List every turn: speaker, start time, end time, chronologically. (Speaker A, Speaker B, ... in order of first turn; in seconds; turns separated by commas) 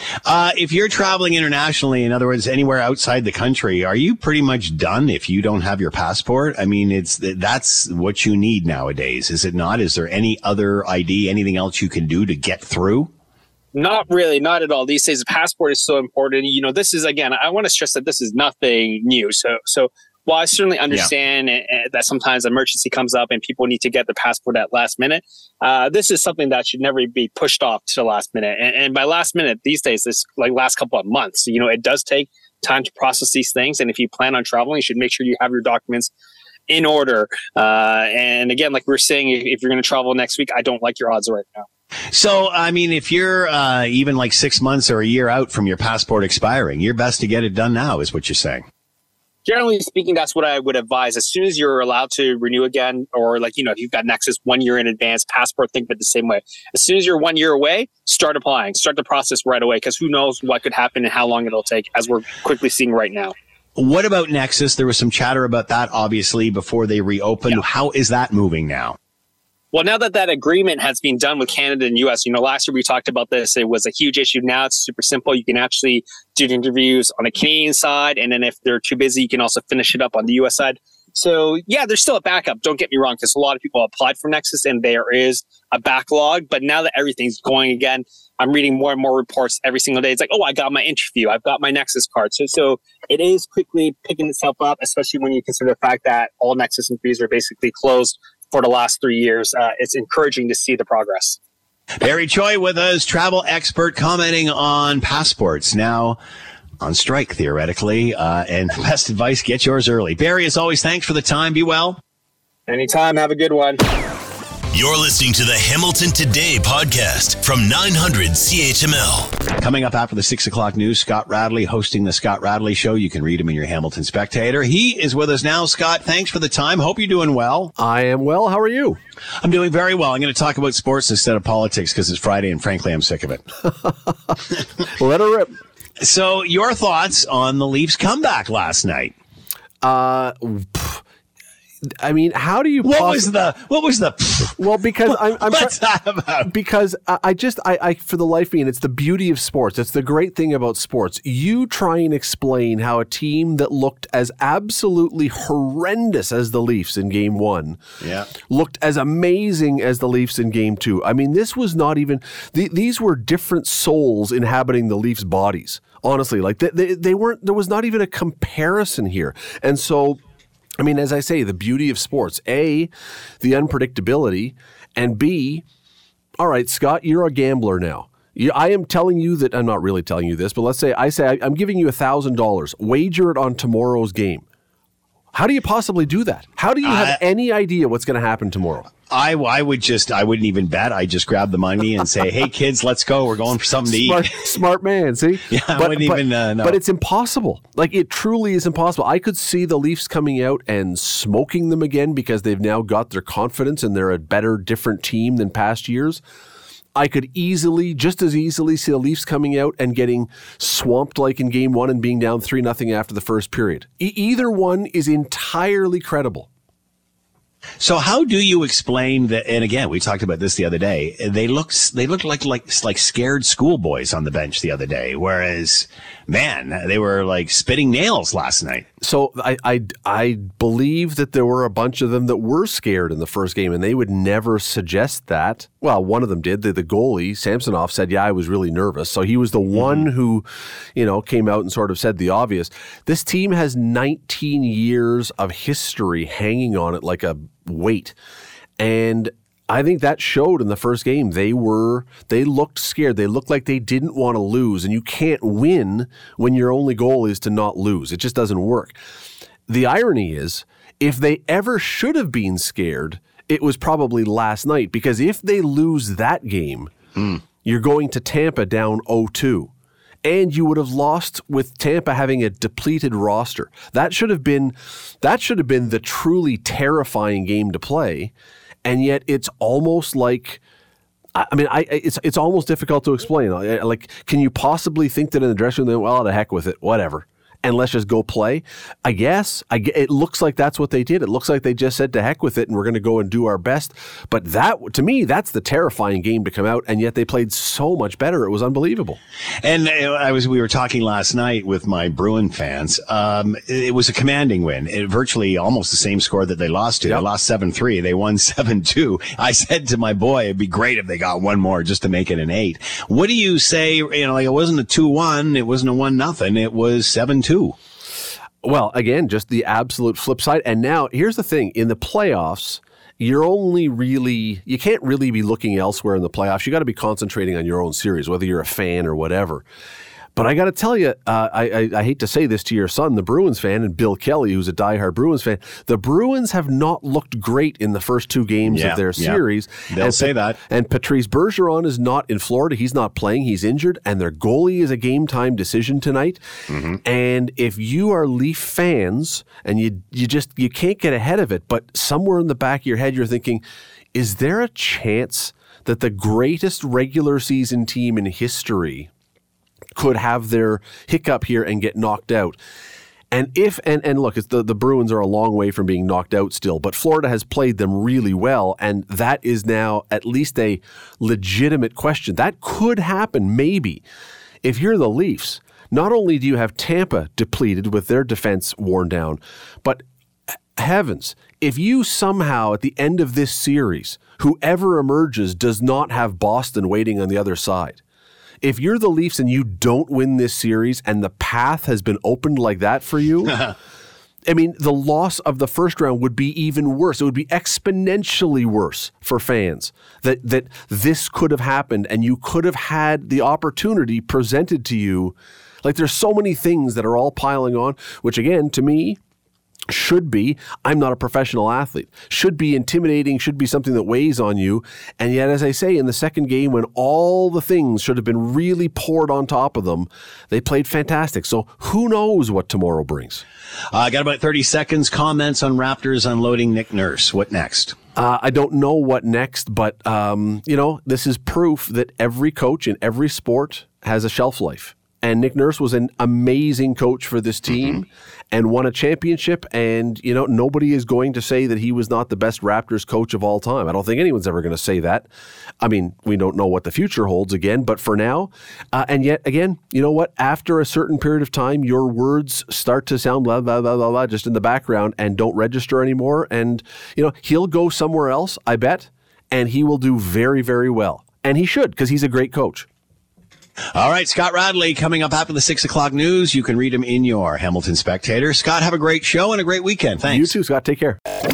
Speaker A: 0.2-13.1, Speaker B: 13.7-36.1, Speaker B: 36.7-41.7, Speaker A: 42.1-48.7, Speaker B: 49.5-63.3, Speaker A: 63.8-69.0, Speaker B: 69.7-101.4, Speaker A: 102.0-106.2, Speaker A: 106.8-112.0, Speaker B: 112.7-113.8, Speaker C: 114.7-119.5, Speaker A: 119.6-127.7, Speaker D: 127.8-129.0, Speaker A: 129.4-133.5, Speaker D: 135.0-135.5, Speaker A: 136.0-139.1, Speaker D: 139.8-141.0, Speaker D: 142.0-143.3, Speaker A: 142.8-146.5, Speaker D: 144.6-145.8, Speaker D: 146.4-157.8, Speaker A: 158.0-158.3, Speaker D: 158.4-170.2, Speaker D: 170.8-175.7, Speaker D: 176.4-184.4, Speaker D: 185.3-188.9, Speaker A: 186.8-187.2, Speaker A: 189.1-194.6, Speaker D: 193.9-206.2, Speaker A: 195.5-196.8, Speaker D: 206.9-216.5, Speaker A: 217.8-228.9, Speaker D: 229.0-248.2, Speaker A: 239.7-240.1, Speaker D: 248.8-259.0, Speaker D: 259.7-269.7, Speaker D: 270.2-278.3, Speaker D: 278.9-280.6, Speaker D: 281.4-299.2, Speaker A: 299.6-317.8, Speaker D: 318.6-329.6, Speaker D: 330.4-346.4, Speaker A: 338.6-340.6, Speaker A: 346.7-347.0, Speaker D: 347.0-353.6, Speaker D: 354.1-359.1, Speaker D: 360.0-362.6, Speaker D: 363.3-374.0, Speaker D: 374.6-380.0, Speaker D: 380.8-388.0, Speaker D: 388.6-393.7, Speaker D: 394.5-409.2, Speaker D: 409.9-423.4, Speaker A: 423.9-428.0, Speaker D: 428.2-445.3, Speaker D: 445.8-462.9, Speaker A: 463.9-470.6, Speaker D: 470.2-471.2